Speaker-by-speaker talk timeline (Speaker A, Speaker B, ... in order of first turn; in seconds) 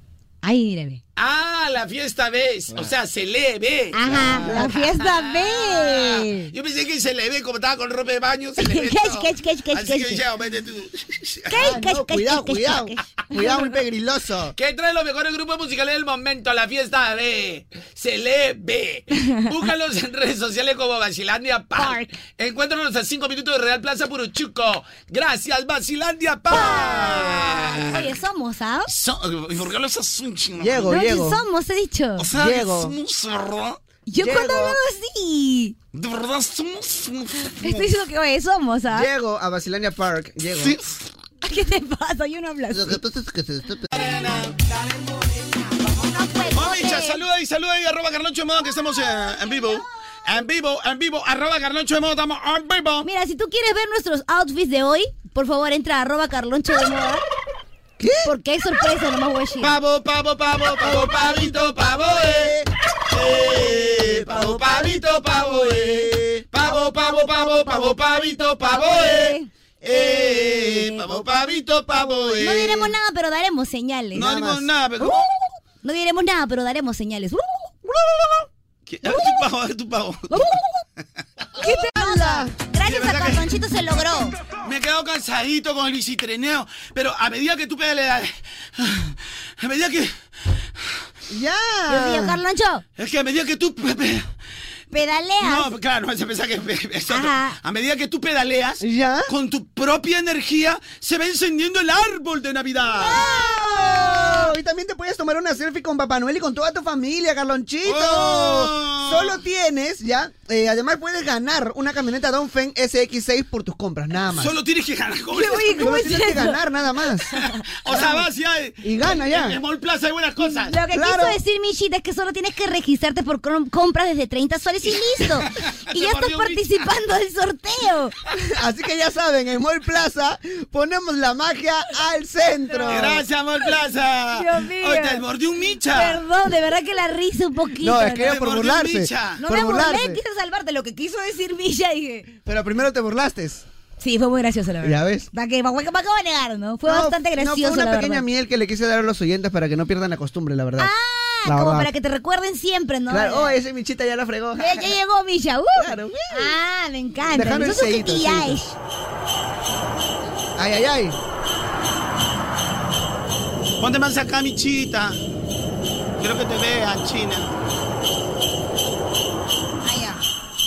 Speaker A: 0.4-1.0, 3.9-6.5, 8.6-10.2, 11.5-13.0, 21.8-22.1, 26.5-28.9, 30.9-32.3, 34.1-35.8, 37.6-39.1, 41.4-43.0, 45.8-47.2, 53.0-57.2, 58.2-59.8, 68.7-69.5, 72.4-74.6, 75.8-77.6, 80.3-80.6, 81.6-84.3, 91.9-92.8, 94.9-95.7, 97.1-97.6, 103.0-104.5, 115.3-116.6, 120.4-128.1, 132.7-133.2, 134.3-135.2, 135.9-138.3, 139.4-142.3, 144.0-148.2, 150.8-153.6, 154.6-158.8, 169.8-170.2
Speaker B: 1.2-11.7, 14.6-28.1, 28.9-31.0, 32.2-33.8, 35.9-37.6, 40.6-41.1, 43.9-44.6, 46.5-53.1, 59.6-62.6, 63.1-72.8, 74.1-75.3, 78.9-80.5, 82.8-83.4, 84.6-90.1, 93.0-94.3, 95.4-103.2, 107.8-109.4, 114.3-115.8, 117.8-120.8, 124.9-126.7, 132.9-136.2, 138.1-139.4, 163.8-165.2, 166.2-167.5
Speaker C: 4.5-4.7, 11.5-14.6, 30.6-31.4, 32.3-32.9, 34.2-34.8, 38.9-40.8, 42.7-44.2, 58.0-58.3, 60.8-61.5, 62.1-62.6, 63.9-64.8, 65.6-66.4, 69.8-72.8, 81.6-82.5, 91.3-92.4, 98.8-99.3, 103.0-114.5, 115.6-117.3, 117.9-118.2, 118.8-119.6, 120.9-121.4, 128.4-133.2, 137.8-140.2, 142.5-143.6, 144.8-145.3, 146.9-150.9, 151.4-151.9, 153.1-154.9, 155.8-156.5, 157.3-158.6, 160.6-161.2